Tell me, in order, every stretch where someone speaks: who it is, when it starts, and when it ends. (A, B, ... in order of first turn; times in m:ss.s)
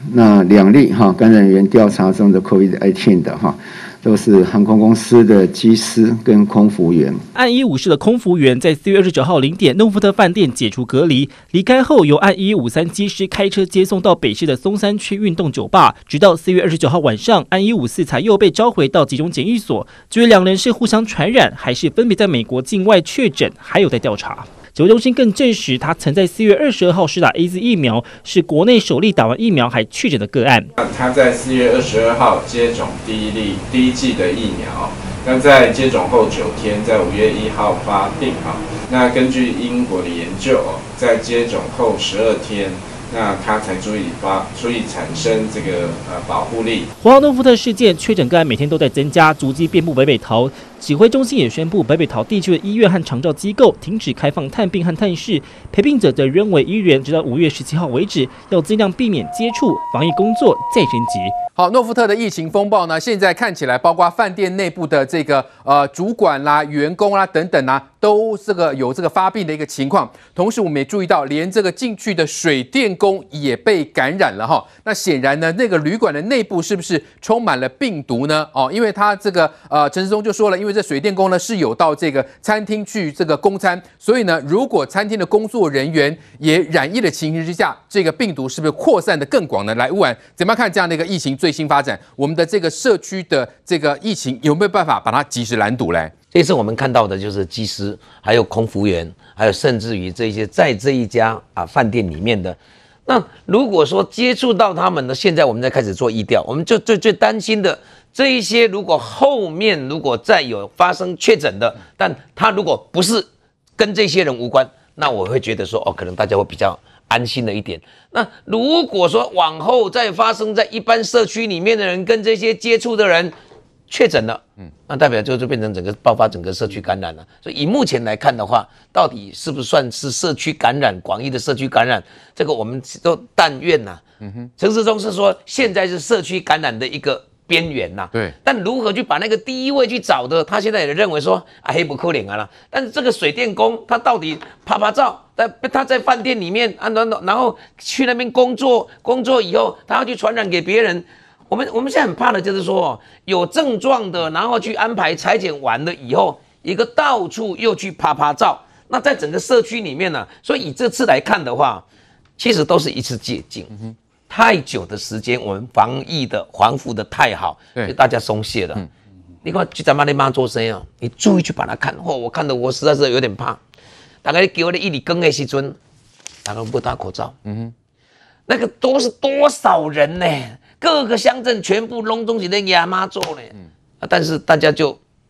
0:00.1-0:07.2 A
0:07.3-0:30.7 B
0:30.8-0:46.9 C
0:47.0-1:01.3 B
1:01.6-1:36.1 D
1:36.3-2:03.3 E
2:03.9-2:14.0 E
2:14.2-2:14.5 D
2:14.6-2:41.8 E
2:42.4-2:48.8 E
2:49.4-2:53.6 E
2:54.2-2:55.8 E
2:56.4-2:57.3 E
2:57.4-2:57.7 D
2:58.5-3:05.0 E